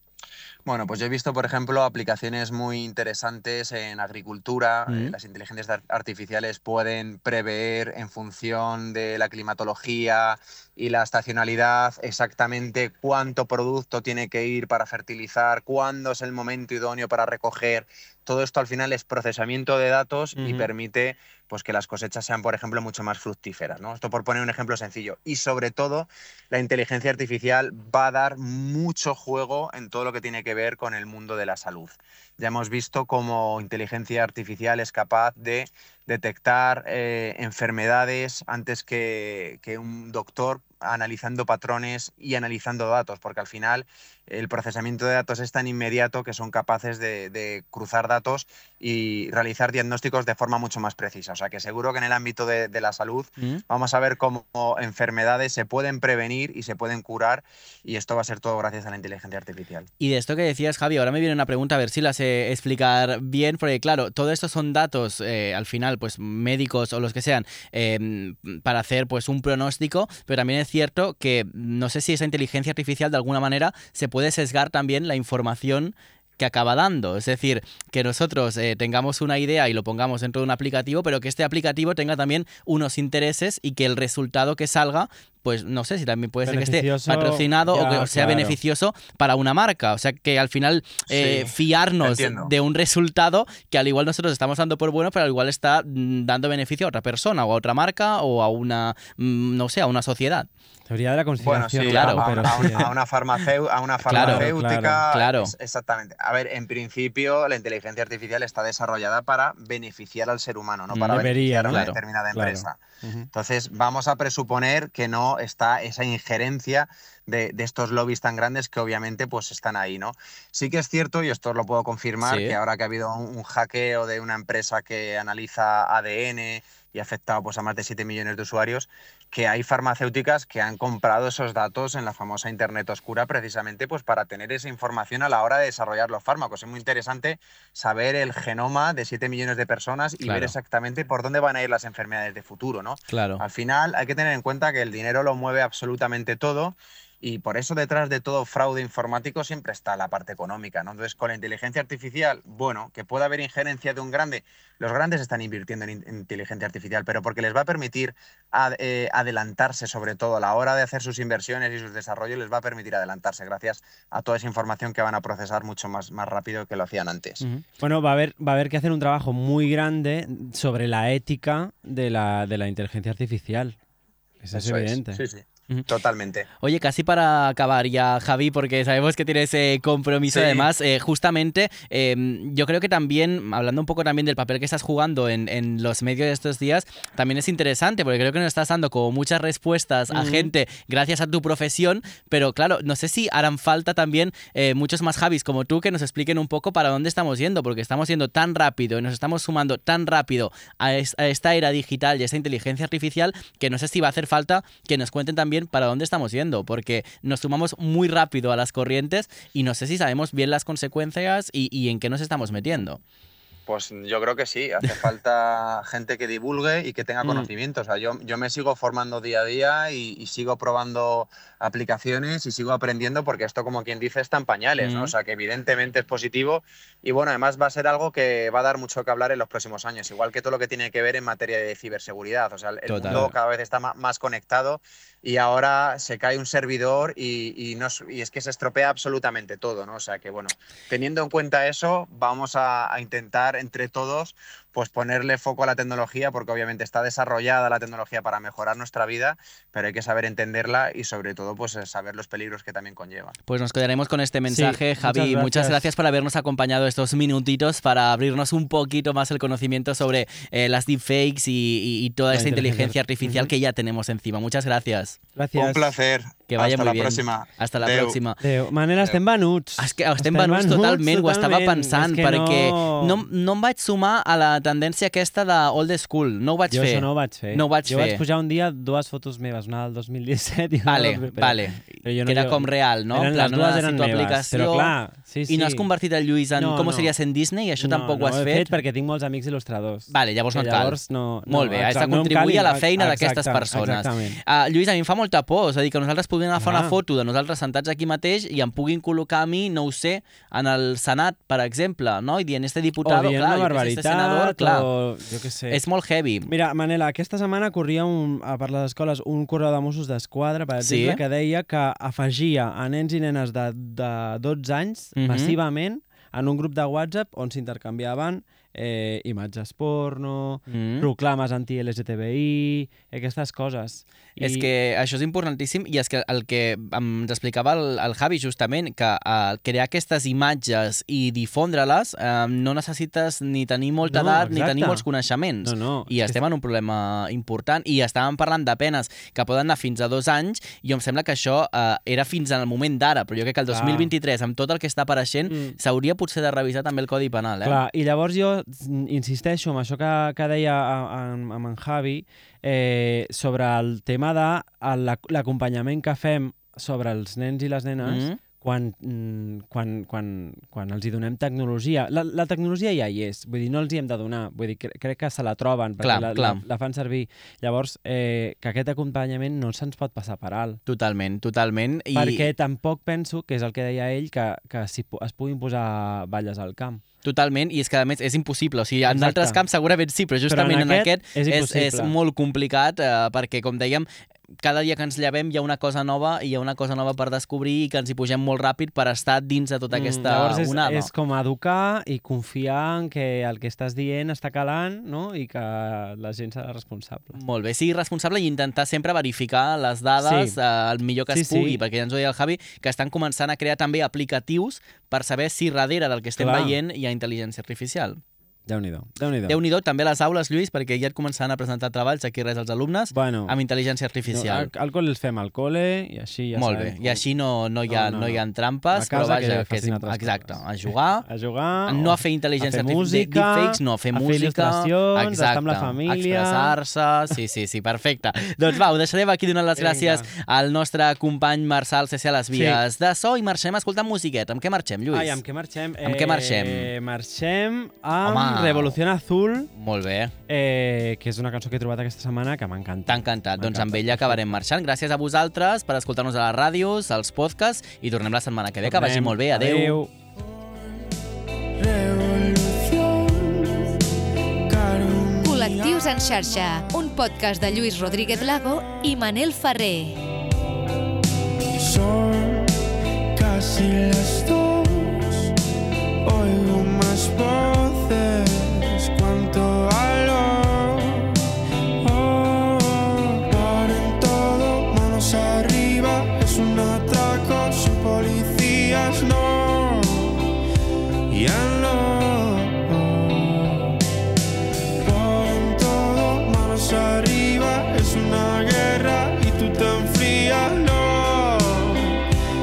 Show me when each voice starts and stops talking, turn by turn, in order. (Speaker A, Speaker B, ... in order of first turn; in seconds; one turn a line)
Speaker A: 0.6-59.9
Speaker B: 4.9-5.1
Speaker C: 20.4-20.7
Speaker B: 60.0-100.5
Speaker C: 86.4-88.6
Speaker A: 91.1-92.5
Speaker C: 100.9-102.8
Speaker A: 101.4-112.8
Speaker B: 101.8-102.9
Speaker B: 104.1-104.5
Speaker C: 104.1-105.0
Speaker B: 105.1-105.5
Speaker B: 110.9-112.0
Speaker C: 111.1-113.3
Speaker A: 113.3-167.4
Speaker B: 122.2-122.6
Speaker B: 140.2-140.5
Speaker B: 143.1-143.4
Speaker C: 167.4-173.8
Speaker C: 174.4-175.2
Speaker A: 174.5-176.5
Speaker B: 176.6-213.0
Speaker A: 180.3-180.7
Speaker C: 190.1-190.5
Speaker A: 213.7-253.3
Speaker B: 224.8-225.1
Speaker B: 232.9-233.3
Speaker B: 253.5-265.2
Speaker C: 254.5-255.9
Speaker C: 262.3-263.5
Speaker C: 265.4-265.9
Speaker A: 265.5-268.2
Speaker B: 266.5-268.4
Speaker C: 268.4-273.2
Speaker B: 269.8-278.2
Speaker C: 276.7-285.9
Speaker B: 280.9-284.9
Speaker B: 285.5-288.7
Speaker C: 286.5-287.1
Speaker C: 287.8-294.4
Speaker B: 290.1-304.9
Speaker C: 296.6-296.9
Speaker C: 303.0-305.8
Speaker B: 305.7-306.5
Speaker C: 306.4-324.7
Speaker B: 310.8-311.2
Speaker B: 315.2-315.5
Speaker B: 320.7-321.1
Speaker B: 324.4-347.8
Speaker C: 334.1-335.0
Speaker C: 335.6-336.4
Speaker C: 343.7-344.1
Speaker C: 345.5-345.8
Speaker C: 347.6-370.8
Speaker B: 358.0-358.4
Speaker B: 366.0-366.6
Speaker B: 370.9-372.5
Speaker C: 372.1-377.0
Speaker B: 377.2-384.1
Speaker C: 379.1-379.6
Speaker C: 380.5-382.1
Speaker B: 384.6-391.1
Speaker C: 389.9-397.4
Speaker B: 397.3-408.2
Speaker C: 400.2-400.6
Speaker C: 401.3-401.8
Speaker C: 406.4-406.8
Speaker C: 408.7-409.6
Speaker B: 409.5-414.7
Speaker C: 413.1-413.6
Speaker C: 414.3-417.2
Speaker B: 416.5-421.3
Speaker C: 417.9-426.7
Speaker B: 421.9-435.4
Speaker C: 429.8-430.3
Speaker C: 432.5-432.8
Speaker C: 435.1-439.7
Speaker B: 436.0-436.9
Speaker B: 438.2-439.0
Speaker B: 439.7-440.3
Speaker C: 440.5-444.5
Speaker B: 443.1-450.0
Speaker C: 448.8-450.1
Speaker D: 450.5-450.9
Speaker D: 451.8-453.9
Speaker D: 454.7-456.9
Speaker E: 455.4-460.2
Speaker D: 457.9-458.4
Speaker D: 461.8-462.8
Speaker D: 463.3-465.5
Speaker D: 466.2-471.4
Speaker D: 472.0-480.5
Speaker D: 481.3-483.9
Speaker D: 485.0-492.2